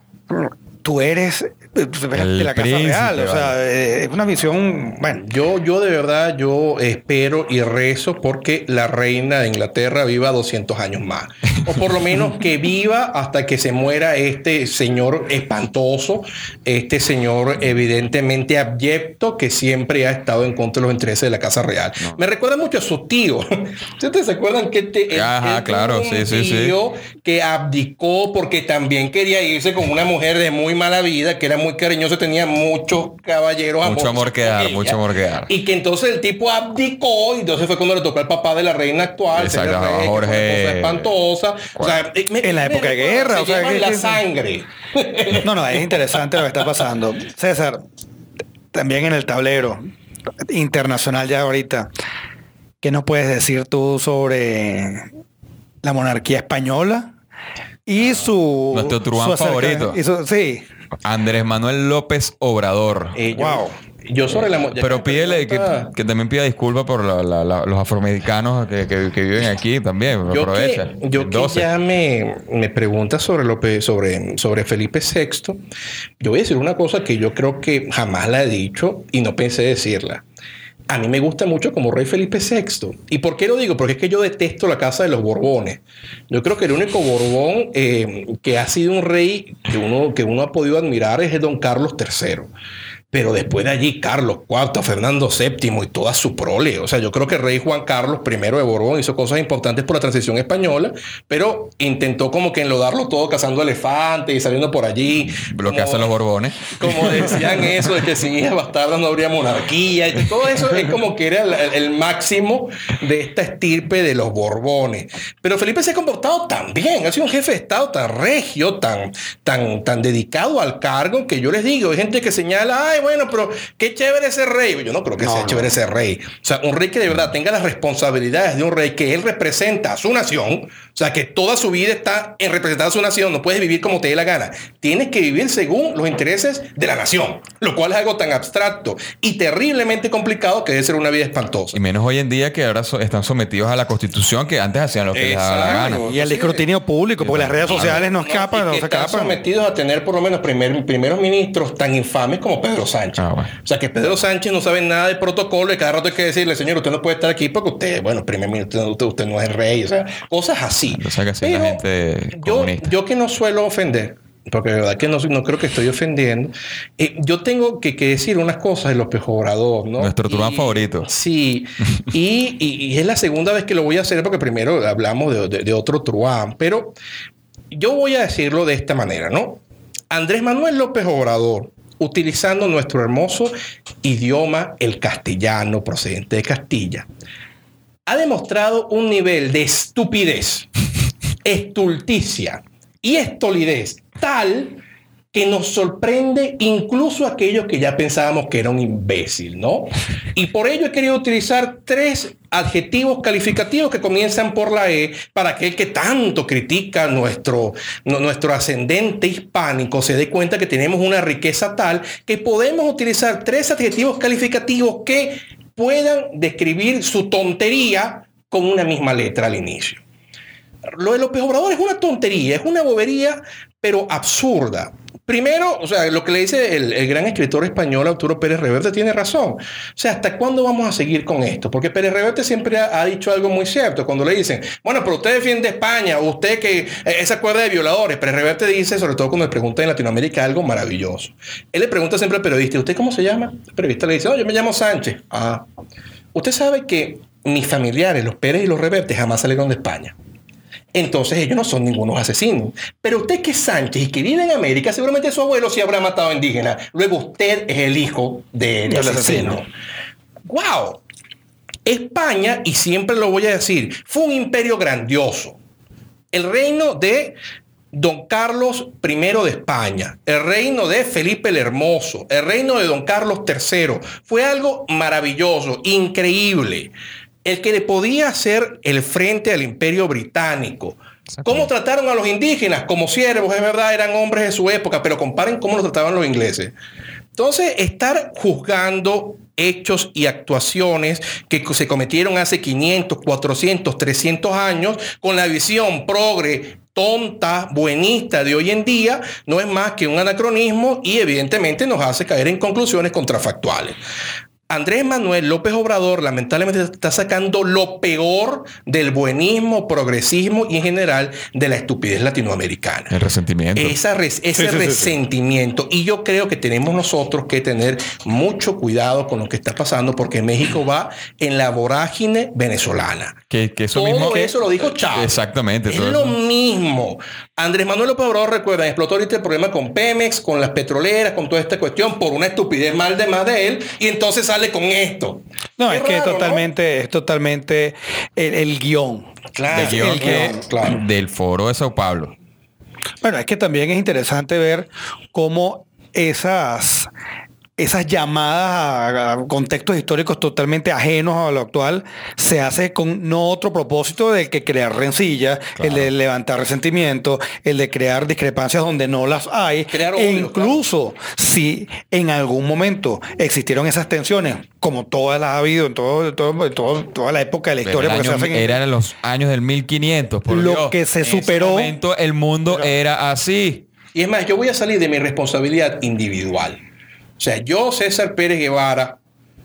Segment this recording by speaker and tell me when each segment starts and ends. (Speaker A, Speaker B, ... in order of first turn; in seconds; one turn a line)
Speaker A: 0.3-5.2
Speaker B: 2.1-3.6
Speaker C: 5.2-46.1
Speaker B: 25.1-26.8
Speaker B: 33.8-35.5
Speaker B: 39.3-41.1
Speaker A: 42.4-44.2
Speaker A: 45.4-47.8
Speaker A: 48.7-49.9
Speaker A: 50.5-51.9
Speaker A: 52.8-55.1
Speaker A: 55.8-57.1
Speaker A: 57.9-60.6
Speaker B: 58.7-60.0
Speaker B: 61.0-63.2
Speaker C: 63.2-65.9
Speaker A: 63.3-63.7
Speaker B: 64.4-71.7
Speaker C: 70.3-75.6
Speaker C: 76.2-80.2
Speaker C: 80.9-92.5
Speaker C: 93.1-106.1
Speaker B: 105.5-107.7
Speaker C: 106.7-141.8
Speaker A: 125.2-125.8
Speaker B: 141.7-146.0
Speaker C: 145.1-146.7
Speaker A: 146.0-149.4
Speaker B: 147.2-148.0
Speaker C: 147.7-161.8
Speaker B: 153.2-153.5
Speaker B: 160.9-162.9
Speaker C: 162.4-176.9
Speaker B: 170.0-171.1
Speaker C: 177.7-187.1
Speaker C: 188.1-190.7
Speaker C: 191.4-194.8
Speaker C: 195.3-220.0
Speaker C: 220.9-245.6
Speaker C: 246.3-250.2
Speaker C: 250.9-259.6
Speaker A: 258.9-259.6
Speaker C: 260.5-261.0
Speaker C: 261.9-265.6
Speaker C: 266.3-267.4
Speaker C: 267.9-276.9
Speaker C: 277.4-286.7
Speaker B: 281.4-281.7
Speaker C: 287.4-304.0
Speaker C: 304.7-313.1
Speaker B: 313.1-314.0
Speaker C: 313.8-323.4
Speaker A: 314.6-315.2
Speaker B: 323.5-326.4
Speaker C: 323.9-325.4
Speaker C: 325.9-336.7
Speaker A: 335.8-340.6
Speaker C: 339.6-341.0
Speaker B: 339.7-342.3
Speaker A: 343.2-347.1
Speaker A: 347.8-368.7
Speaker B: 355.8-356.1
Speaker C: 359.9-360.8
Speaker B: 367.9-373.9
Speaker A: 370.5-371.9
Speaker C: 374.1-376.8
Speaker C: 377.4-379.2